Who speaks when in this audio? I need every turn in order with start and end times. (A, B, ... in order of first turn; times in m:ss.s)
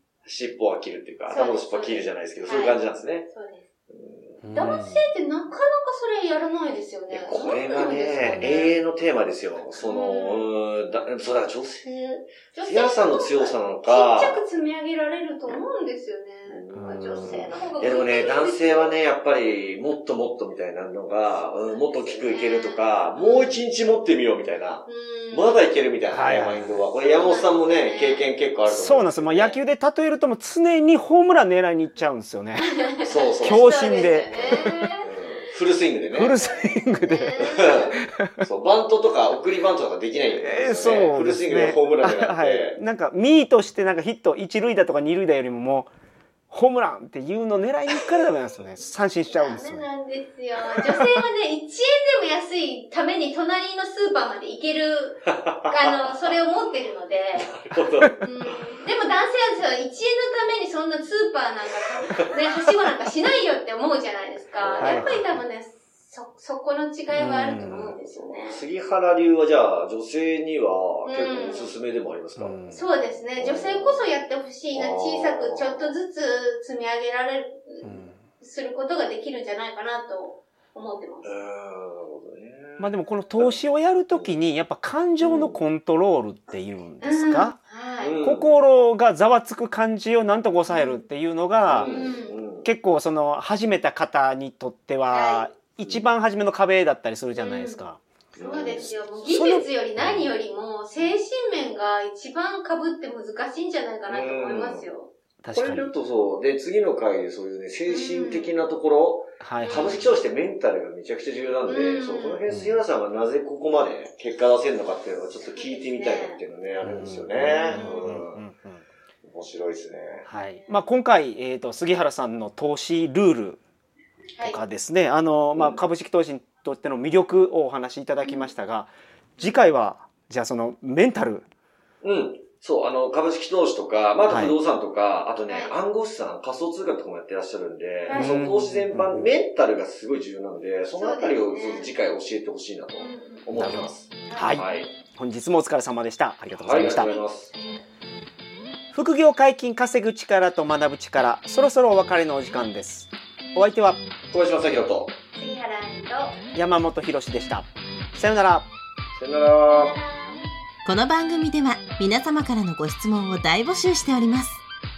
0:00.2-0:03.3 A
0:01.3-0:03.6 B
0:03.9-0:04.4 A
0:04.4-0:05.0 C
0:04.5-0:08.7 B
0:07.1-0:14.4 A
0:08.1-0:08.8 C
0:09.8-0:10.5 B
0:12.5-0:19.0 B
0:16.5-0:29.6 A
0:16.8-0:17.5 C
0:21.6-0:23.6 B
0:24.9-0:25.6 B
0:26.1-0:26.8 C
0:27.0-0:28.3 B
0:28.7-0:32.8 C
0:32.6-0:35.1 B
0:33.0-0:33.7 A
0:33.4-0:34.9 C
0:34.3-0:36.4 A
0:36.1-0:38.5 C
0:36.4-0:38.0 B
0:37.5-0:42.8 A
0:40.3-0:45.9 C
0:46.5-0:49.8 C
0:49.3-0:57.6 B
0:55.4-0:56.3 A
0:57.4-0:58.3 A
0:58.2-1:08.6 B
1:04.6-1:05.1 A
1:04.8-1:05.4 C
1:07.1-1:08.0 C
1:08.0-1:12.6 A
1:11.0-1:11.8 B
1:12.4-1:12.9 C
1:12.7-1:21.3 B
1:13.4-1:14.2 A
1:14.7-1:16.0 A
1:17.8-1:18.2 C
1:21.2-1:23.6 A
1:22.8-1:27.6 C
1:25.2-1:25.6 A
1:27.0-1:28.2 B
1:28.0-1:28.5 A
1:28.2-1:31.9 C
1:30.7-1:31.0 B
1:31.7-1:32.7 A
1:31.8-1:32.4 B
1:32.6-1:38.0 C
1:35.1-1:35.5 B
1:37.4-1:37.8 B
1:38.4-1:38.9 A
1:38.4-1:45.1 B
1:38.7-1:40.3 C
1:44.1-1:44.9 A
1:45.4-1:45.9 C
1:45.5-1:58.4 A
1:47.9-1:48.6 B
1:49.4-1:50.0 C
1:49.6-1:50.0 B
1:51.6-1:52.4 B
1:52.5-1:52.8 C
1:55.5-1:56.4 B
1:56.8-1:58.8 C
1:57.7-1:58.2 B
1:59.2-2:00.3 A
2:00.3-2:03.6 C
2:00.3-2:00.8 B
2:04.4-2:04.6 B
2:04.4-2:11.5 C
2:05.6-2:05.8 A
2:08.2-2:08.5 B
2:12.0-2:24.9 A
2:14.3-2:14.6 C
2:15.5-2:15.7 B
2:18.1-2:18.4 B
2:18.1-2:19.3 C
2:20.9-2:21.9 B
2:23.0-2:24.6 B
2:23.5-2:27.1 C
2:26.6-2:27.5 A
2:26.8-2:27.8 B
2:28.9-2:34.0 C
2:34.3-2:35.1 A
2:35.3-2:36.4 B
2:36.5-2:38.7 C
2:39.1-2:40.0 A
2:39.3-2:40.5 B
2:40.8-2:44.6 D